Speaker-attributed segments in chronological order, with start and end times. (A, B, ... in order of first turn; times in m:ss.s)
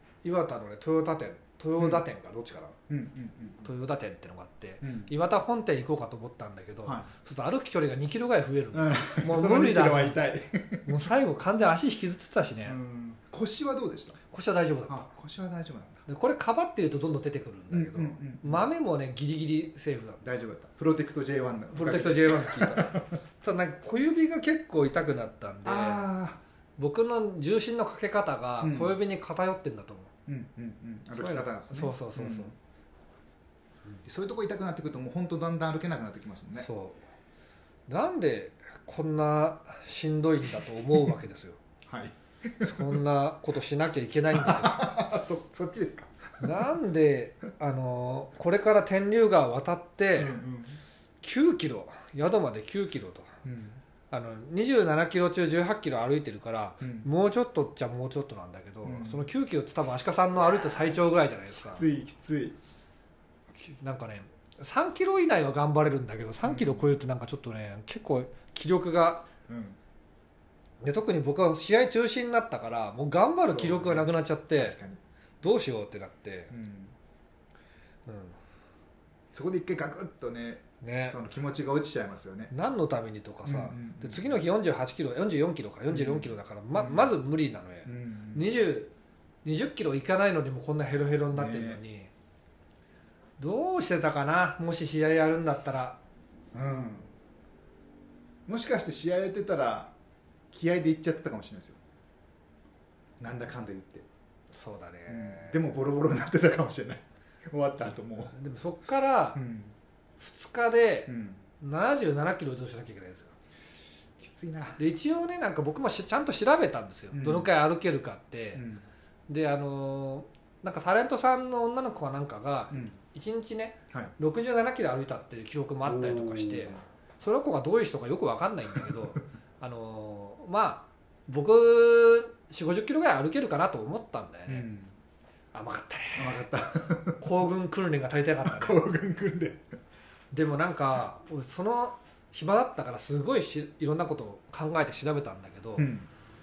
0:00.2-0:02.8 A
0:02.9-0:03.6 B
0:03.6-0:10.2 A
0:04.8-0:05.1 B
0:06.8-0:07.1 B
0:08.7-0:10.9 B
0:10.8-0:12.8 A
0:12.6-0:14.2 B
0:14.3-0:15.1 A
0:14.9-0:16.0 B
0:16.1-0:20.2 A
0:17.7-0:18.7 B
0:20.2-0:23.2 B
0:21.7-0:26.1 A
0:25.6-0:26.4 B
0:26.8-0:30.1 A
0:28.6-0:29.0 B
0:30.3-0:32.5 B
0:31.1-0:32.5 A
0:34.0-0:36.7 B
0:36.6-0:37.0 A
0:37.9-0:41.6 A
0:41.8-0:43.0 B
0:42.6-0:44.9 A
0:44.3-0:46.1 B
0:46.4-0:50.4 A
0:50.2-0:50.8 B
0:51.2-0:53.3 A
0:53.4-0:53.8 B
0:54.1-1:01.9 A
0:56.8-0:57.1 B
0:58.8-0:59.2 B
1:01.7-1:02.6 B
1:03.6-1:09.3 A
1:06.4-1:06.8 B
1:09.5-1:09.8 B
1:10.8-1:14.8 A
1:13.4-1:15.0 B
1:15.4-1:16.5 A
1:16.5-1:16.9 B
1:18.0-1:18.4 A
1:19.3-1:22.5 B
1:20.8-1:21.2 A
1:22.5-1:28.9 A
1:23.4-1:24.4 B
1:25.9-1:27.1 B
1:27.8-1:28.5 B
1:29.4-1:32.1 A
1:31.3-1:31.8 B
1:33.4-1:36.0 A
1:36.5-1:37.1 B
1:38.4-1:39.9 B
1:40.5-1:41.8 B
1:43.2-1:44.0 B
1:44.5-1:45.6 A
1:45.1-1:48.3 B
1:48.3-1:49.4 A
1:49.3-1:49.8 B
1:50.2-1:53.3 A
1:51.1-1:51.4 B
1:54.2-1:54.8 B
1:54.8-1:58.6 A
1:57.1-1:57.5 B
1:58.5-1:58.8 B
1:59.3-2:14.7 A
2:05.8-2:06.8 B
2:14.5-2:14.9 B
2:15.5-2:16.5 A
2:16.2-2:17.2 B
2:17.2-2:18.8 A
2:18.4-2:19.6 B
2:20.3-2:25.9 A
2:25.8-2:26.1 B